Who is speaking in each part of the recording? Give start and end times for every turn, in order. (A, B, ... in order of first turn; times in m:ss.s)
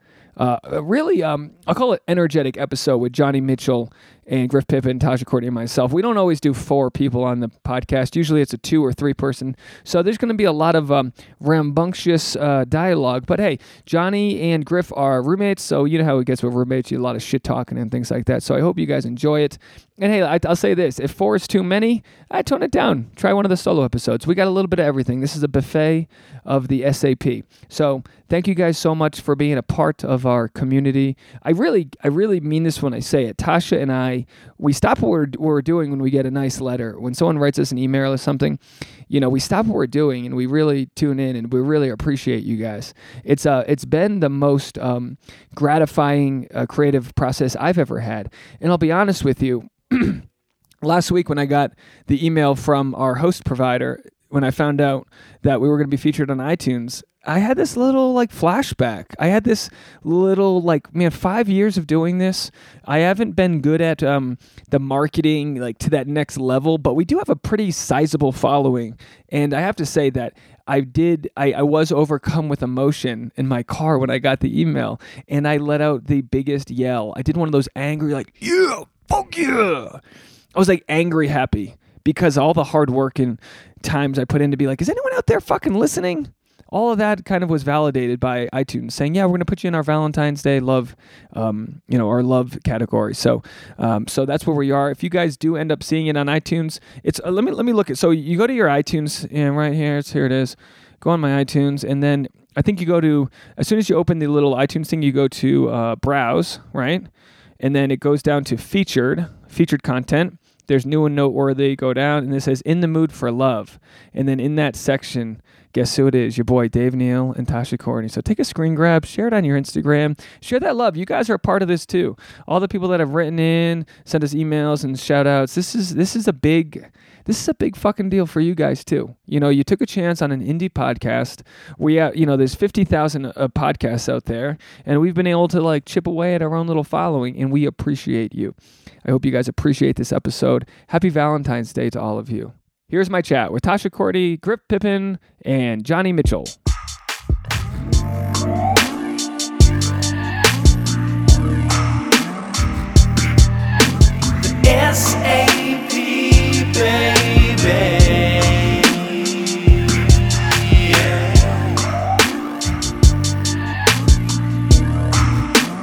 0:00.4-0:38.6 A
0:39.1-0:50.2 A
0:50.8-1:20.0 A
1:20.6-1:47.1 A
1:47.6-2:26.6 A
2:34.9-2:35.7 A